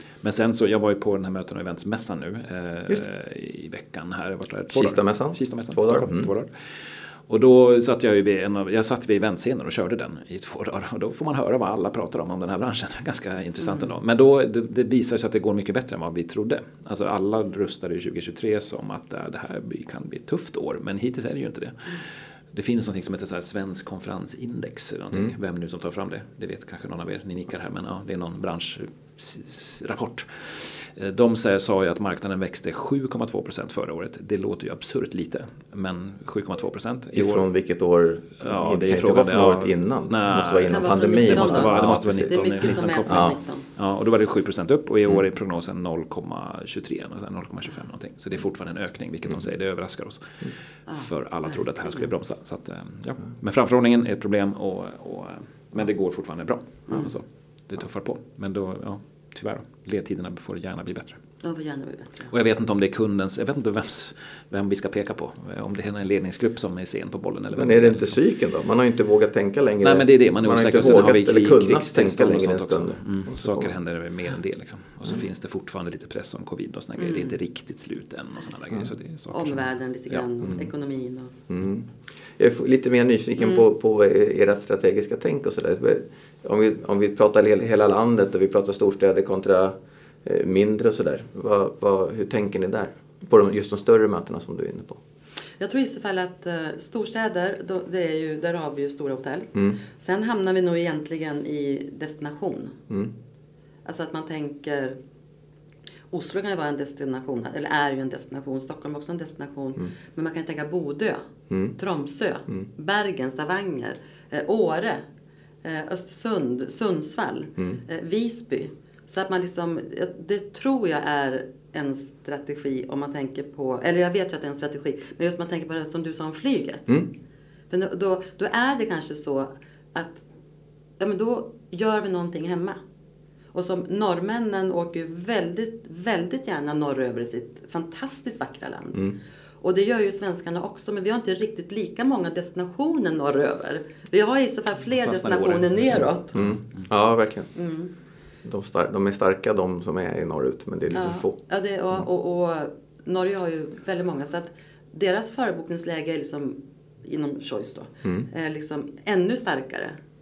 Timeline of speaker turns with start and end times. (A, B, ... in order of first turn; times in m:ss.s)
0:00.2-0:37.4 A
0:04.7-0:06.3 B
0:37.1-0:43.4 B
0:38.4-1:01.2 A
0:40.6-0:43.6 C
1:01.4-1:02.3 C
1:02.3-1:08.2 A
1:07.5-1:13.7 B
1:09.8-1:20.2 A
1:19.3-1:21.3 C
1:21.5-1:35.0 B
1:35.6-1:42.8 C
1:43.8-1:45.0 C
1:46.1-1:55.0 C
1:51.5-1:51.7 B
1:55.6-2:07.0 C
2:07.7-2:10.2 C
2:11.0-2:12.8 C
2:13.5-2:26.4 C
2:24.9-2:26.8 A
2:26.3-2:27.5 B
2:27.5-2:27.9 C
2:28.4-2:31.4 B
2:30.9-2:40.0 C